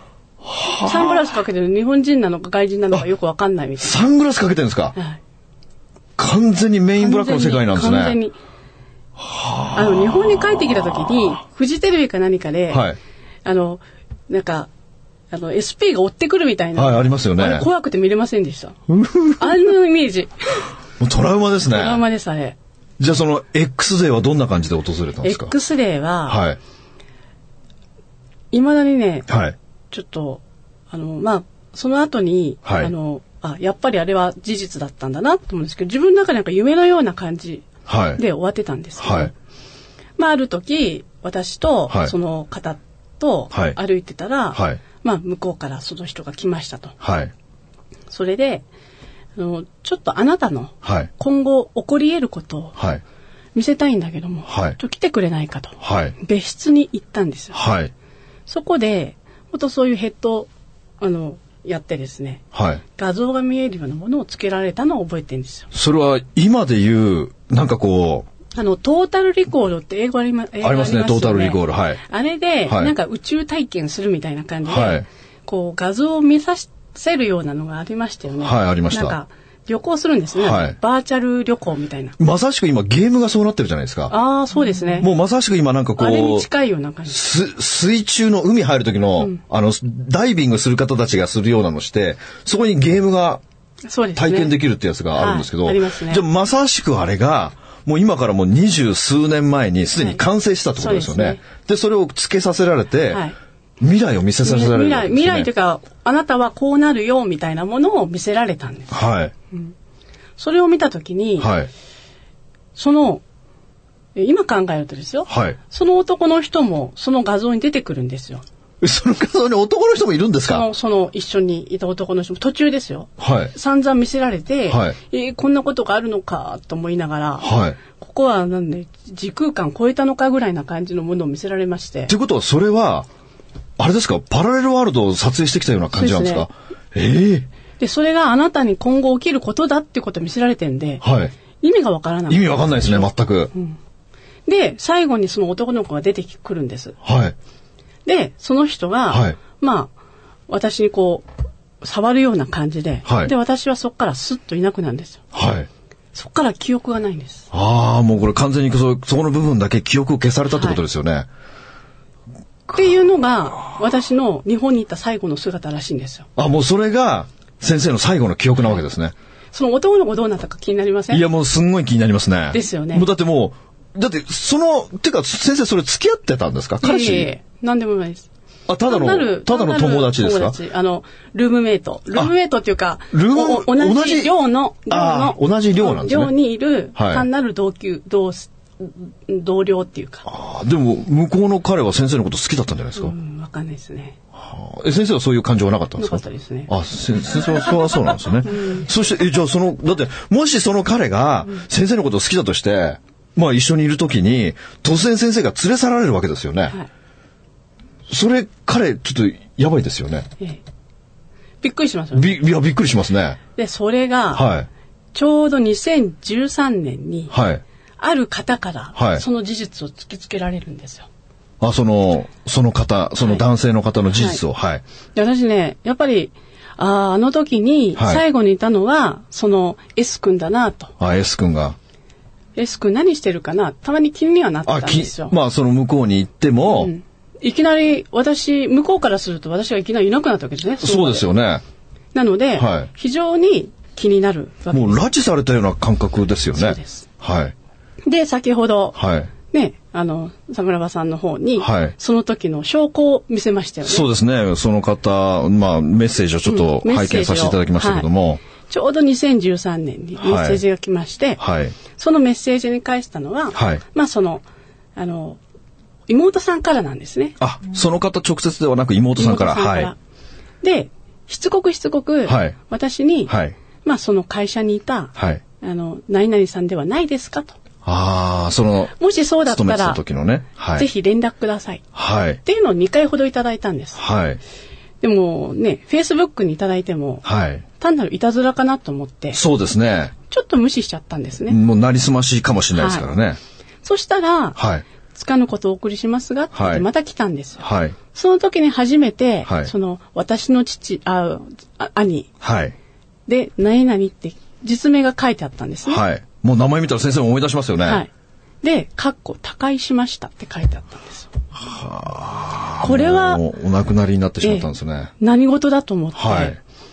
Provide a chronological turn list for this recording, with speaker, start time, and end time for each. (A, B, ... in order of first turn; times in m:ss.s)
0:00.4-0:01.3 A
0:00.8-0:04.0 B
0:03.8-0:05.0 A
0:06.2-0:08.2 A
0:07.0-0:08.4 B
0:09.2-0:11.2 A
0:09.7-0:12.8 B
0:12.7-0:13.0 A
0:13.4-0:14.7 B
0:15.3-0:18.8 B
0:16.8-0:17.7 A
0:18.9-0:19.5 A
0:19.4-0:20.6 B
0:21.0-0:22.0 A
0:21.7-0:22.6 B
0:23.0-0:25.5 A
0:25.2-0:26.4 B
0:26.3-0:26.6 A
0:28.5-0:29.3 B
0:29.3-0:29.6 A
0:29.9-0:39.4 B
0:32.6-0:32.9 A
0:37.9-0:38.2 A
0:39.0-0:39.3 A
0:40.2-0:47.0 B
0:41.9-0:42.1 A
0:43.5-0:43.8 A
0:44.5-0:44.8 A
0:47.0-0:47.3 A
0:48.1-0:48.7 B
0:49.4-0:52.8 B
0:50.8-0:51.1 A
0:52.8-0:53.0 A
0:53.6-0:57.6 B
0:54.5-0:54.8 A
0:55.8-0:56.2 A
0:57.5-0:57.9 A
0:58.5-1:00.5 B
1:01.0-1:05.7 B
1:02.5-1:02.8 A
1:05.7-1:08.3 A
1:08.5-1:22.2 B
1:10.6-1:12.0 A
1:12.7-1:12.9 A
1:14.7-1:15.1 A
1:18.4-1:19.2 A
1:20.4-1:20.8 A
1:22.2-1:24.1 A
1:24.1-1:25.1 B
1:25.0-1:26.5 A
1:26.0-1:27.2 B
1:27.1-1:33.4 A
1:33.9-1:34.6 B
1:34.2-1:43.2 A
1:35.2-1:36.2 B
1:40.8-1:41.4 B
1:43.8-1:45.5 A
1:44.4-1:49.0 B
1:48.9-1:49.3 A
1:50.4-1:51.5 B
1:51.4-1:51.7 A
1:52.8-1:53.2 B
1:54.2-1:58.4 B
1:55.3-1:55.6 A
1:58.8-2:00.7 A
2:00.5-2:12.1 B
2:03.2-2:03.5 A
2:04.7-2:05.0 A
2:07.4-2:07.8 A
2:12.1-2:13.1 A
2:13.8-2:17.5 A
2:15.9-2:16.5 B
2:17.8-2:21.0 B
2:21.0-2:21.3 A
2:21.6-2:23.8 B
2:22.3-2:23.5 A
2:24.5-2:27.0 B
2:27.0-2:27.4 A
2:28.0-2:29.9 B
2:29.1-2:29.4 A
2:30.5-2:31.3 B
2:31.8-2:35.2 B
2:33.1-2:33.3 A
2:35.3-2:35.7 A
2:36.2-2:37.5 B
2:37.5-2:41.3 A
2:40.5-2:40.8 B
2:42.7-2:46.3 B
2:46.4-2:49.1 A
2:49.5-2:51.2 B
2:51.1-2:57.3 A
2:52.5-2:53.1 B
2:56.8-2:58.3 B
2:58.7-3:00.6 A
2:58.9-3:10.3 B
3:03.1-3:04.3 A
3:04.9-3:06.3 A
3:07.0-3:07.3 A
3:10.2-3:13.1 A
3:13.0-3:14.2 B
3:14.4-3:26.8 A
3:16.0-3:16.7 B
3:18.5-3:18.8 B
3:28.1-3:30.3 A
3:31.6-3:32.4 B
3:32.1-3:33.4 A
3:33.6-3:34.5 B
3:34.3-3:34.7 A
3:35.1-3:37.3 B
3:37.3-3:37.6 A
3:38.0-3:41.1 B
3:39.0-3:39.2 A
3:41.6-3:44.8 A
3:45.2-3:50.9 B
3:48.0-3:48.2 A
3:51.0-3:51.8 A
3:52.6-3:55.4 B
3:54.7-3:56.9 A
3:56.7-4:01.3 B
4:00.8-4:01.6 A
4:02.1-4:05.1 B
4:02.6-4:02.9 A
4:04.7-4:07.5 A
4:06.6-4:07.1 B
4:08.0-4:14.1 B
4:09.0-4:09.3 A
4:11.6-4:11.9 A
4:13.8-4:18.4 A
4:16.5-4:18.1 B
4:18.6-4:24.4 B
4:20.2-4:20.6 A
4:21.4-4:21.8 A
4:23.5-4:23.8 A
4:25.0-4:25.4 B
4:26.1-4:27.4 B
4:27.4-4:29.9 A
4:29.2-4:30.0 B
4:30.6-4:37.6 B
4:32.3-4:32.6 A
4:33.3-4:33.6 A
4:35.2-4:35.4 A
4:37.8-4:39.0 A
4:39.0-4:40.0 B
4:39.5-4:40.9 A
4:40.8-4:41.8 B
4:42.0-4:42.4 A
4:42.4-4:44.0 B
4:44.0-4:44.4 A
4:45.0-4:47.2 B
4:47.2-4:47.6 A
4:47.8-4:49.4 B
4:49.3-4:50.1 A
4:50.3-4:51.6 B
4:51.5-4:53.4 A
4:52.8-4:53.1 B
4:53.8-4:54.6 B
4:54.6-4:54.8 A
4:55.1-5:02.3 B
4:56.5-4:56.9 A
4:57.6-4:58.0 A
4:59.5-4:59.7 A
5:02.4-5:02.7 A
5:03.3-5:06.0 B
5:05.9-5:08.0 A
5:08.6-5:11.3 B
5:11.6-5:15.1 A
5:12.8-5:13.4 B
5:14.4-5:14.7 B
5:15.2-5:16.6 B
5:16.2-5:16.6 A